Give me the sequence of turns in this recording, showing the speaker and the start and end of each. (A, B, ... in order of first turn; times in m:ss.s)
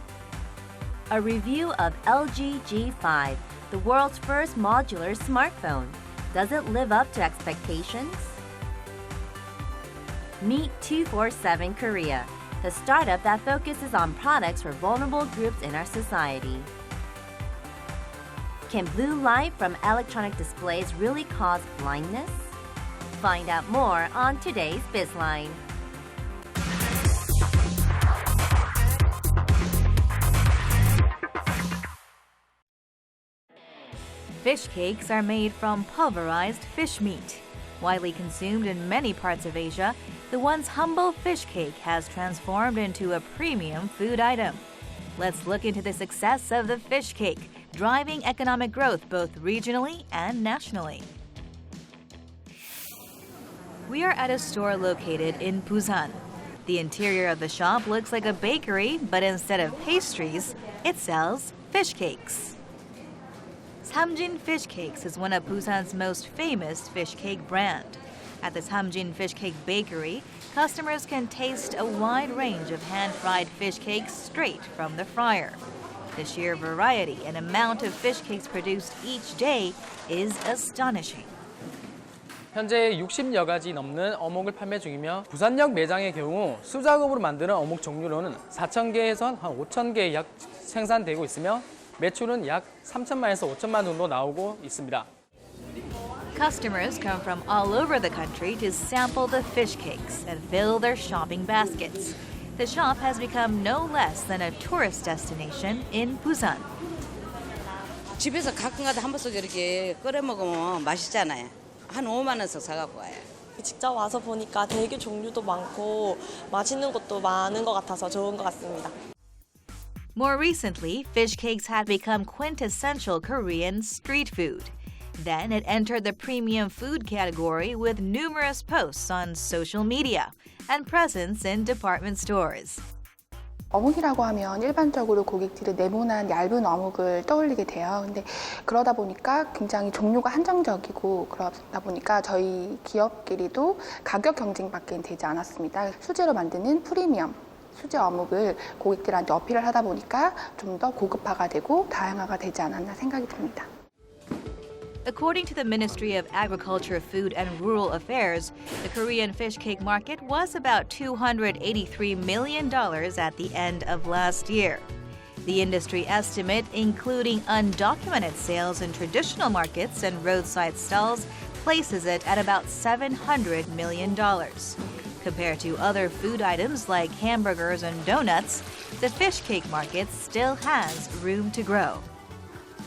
0:01.1-0:08.4 A
0:10.4-0:16.7 A
0:18.7-0:22.6 A
0:23.1-0:25.6 A
0:34.4-0:44.6 B
0:45.2-0:51.1 B
0:53.9-1:02.6 B
1:03.8-1:15.6 B
1:16.1-1:21.3 B
1:22.5-1:35.1 C
1:36.3-1:46.7 B
1:48.2-1:53.3 D
1:53.6-1:58.9 E
2:00.1-2:12.8 B
2:13.7-2:33.7 F
2:35.0-2:44.9 B
2:45.4-3:02.0 B